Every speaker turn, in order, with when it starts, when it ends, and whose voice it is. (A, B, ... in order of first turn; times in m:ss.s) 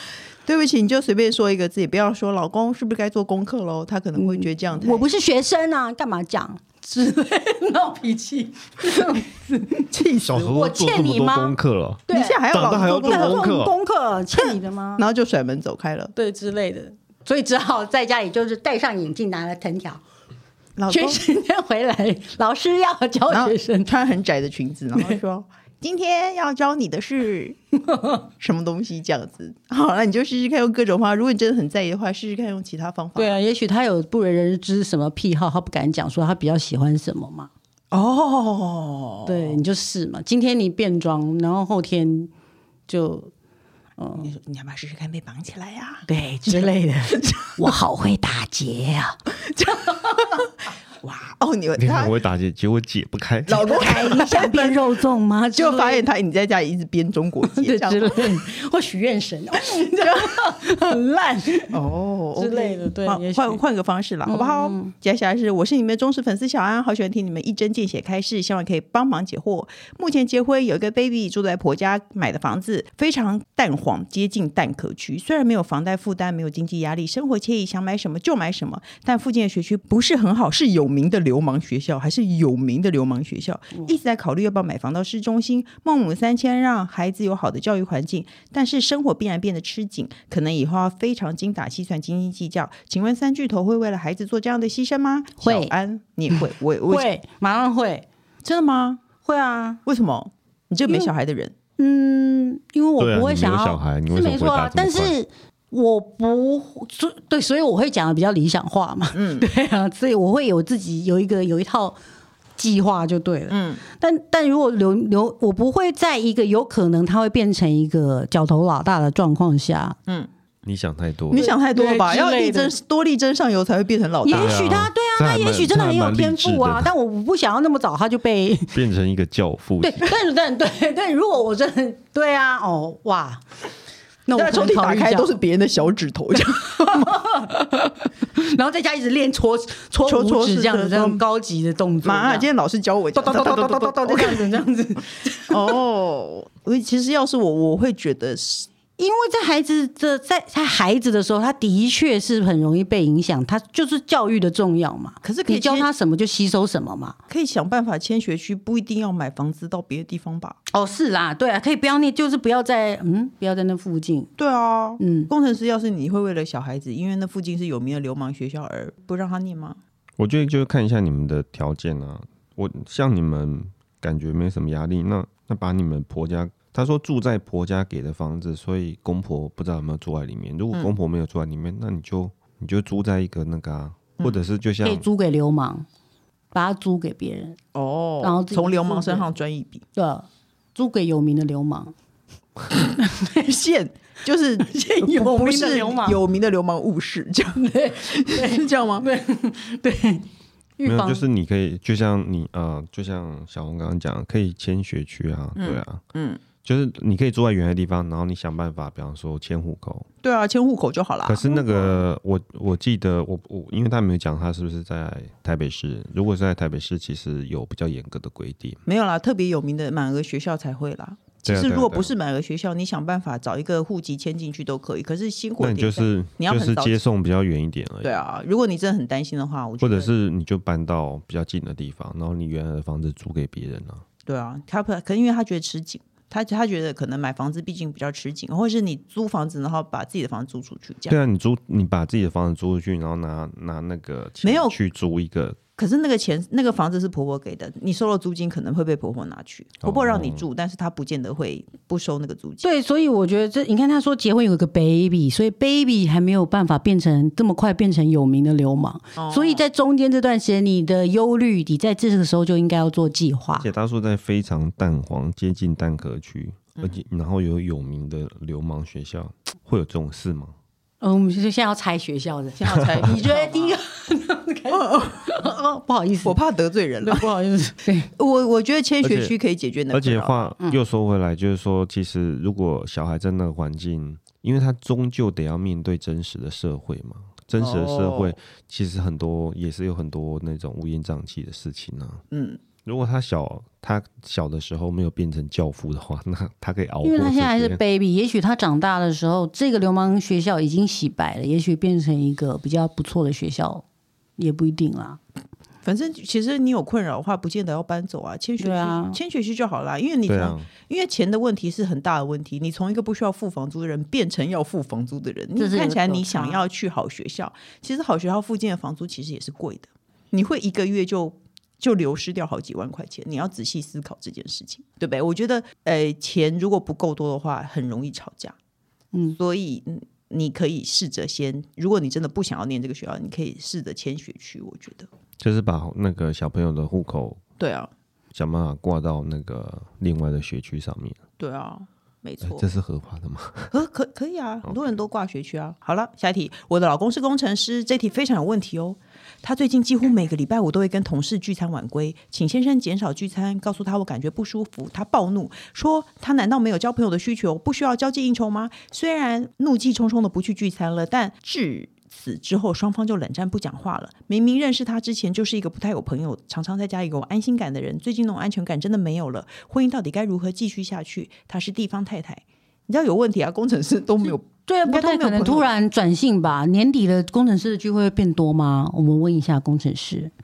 0:00.5-0:05.1 A
0:04.2-0:09.9 B
0:09.9-0:10.5 A
0:10.2-0:13.7 C
0:10.4-0:11.6 B
0:12.1-0:15.0 B
0:12.1-0:13.5 A
0:14.4-0:16.1 A
0:16.2-0:20.0 B
0:20.8-0:21.2 A
0:20.9-0:23.9 B
0:23.3-0:27.6 A
0:28.4-0:33.4 A
0:33.2-0:37.5 B
0:37.9-0:39.6 A
0:39.3-0:42.3 B
0:42.9-0:43.3 B
0:44.0-0:44.3 B
0:44.2-0:47.7 A
0:46.1-0:49.2 B
0:49.6-0:50.4 A
0:51.0-0:52.1 A
0:51.8-0:53.7 C
0:53.5-0:54.8 A
0:53.7-0:56.0 B
0:55.6-0:58.4 A
0:57.5-1:01.8 B
1:00.0-1:00.4 A
1:01.7-1:37.1 A
1:02.4-1:03.6 B
1:04.3-1:04.9 B
1:35.4-1:35.7 B
1:36.3-1:38.1 B
1:38.4-1:39.0 A
1:39.2-1:39.8 B
1:39.8-1:41.5 A
1:41.8-1:52.0 B
1:43.0-1:45.2 C
1:49.1-1:49.5 A
1:52.6-2:00.0 B
1:53.5-1:53.8 A
2:00.6-2:01.5 C
2:01.3-2:04.6 A
2:01.3-2:02.7 B
2:04.2-2:08.8 B
2:04.3-2:06.9 C
2:08.7-2:10.1 C
2:09.8-2:13.4 B
2:14.3-2:15.4 B
2:14.3-2:17.2 A
2:16.5-2:22.5 B
2:20.0-2:21.2 A
2:22.0-2:24.5 A
2:23.2-2:25.8 B
2:25.5-2:28.7 A
2:29.0-2:37.2 B
2:35.2-2:35.9 A
2:37.3-2:40.6 A
2:40.7-2:44.3 B
2:44.4-2:49.8 A
2:45.0-2:45.3 B
2:50.2-3:05.1 C
3:04.8-3:05.9 B
3:06.5-3:07.6 B
3:07.8-3:09.8 A
3:08.2-3:09.3 B
3:10.0-3:11.9 B
3:13.0-3:13.4 B
3:13.4-3:19.1 A
3:14.6-3:16.2 B
3:17.6-3:20.2 B
3:20.8-3:21.2 B
3:20.8-3:26.0 C
3:25.6-3:26.4 A
3:26.6-3:30.1 C
3:30.2-3:32.0 A
3:31.2-3:38.8 C
3:38.9-3:47.0 A
3:41.4-3:42.1 C
3:45.6-3:48.1 C
3:48.0-3:50.1 A
3:49.8-3:54.0 C
3:54.3-4:01.2 A
4:01.1-4:05.6 C
4:04.4-4:04.8 A
4:05.8-4:12.7 A
4:09.8-4:10.4 C
4:12.6-4:23.7 B
4:19.2-4:19.6 A
4:23.6-4:30.6 C
4:31.0-4:36.4 B
4:32.6-4:33.8 A
4:34.7-4:35.5 A
4:36.2-4:37.3 A
4:37.0-4:38.1 B
4:38.2-4:40.4 A
4:39.0-4:39.3 C
4:39.9-4:52.2 C
4:47.6-4:48.4 A
4:52.3-4:52.6 A
4:52.8-4:57.8 C
4:57.0-5:03.8 B
5:04.4-5:05.2 B
5:05.8-5:28.6 A
5:08.6-5:09.2 B
5:10.3-5:10.7 C
5:15.6-5:16.6 B
5:29.1-5:29.4 B
5:29.4-5:35.1 A
5:35.4-5:37.4 C
5:37.6-5:37.9 A
5:38.3-5:41.2 C
5:41.4-5:42.7 A
5:42.4-5:43.7 C
5:43.7-6:15.7 A
6:14.7-6:20.3 B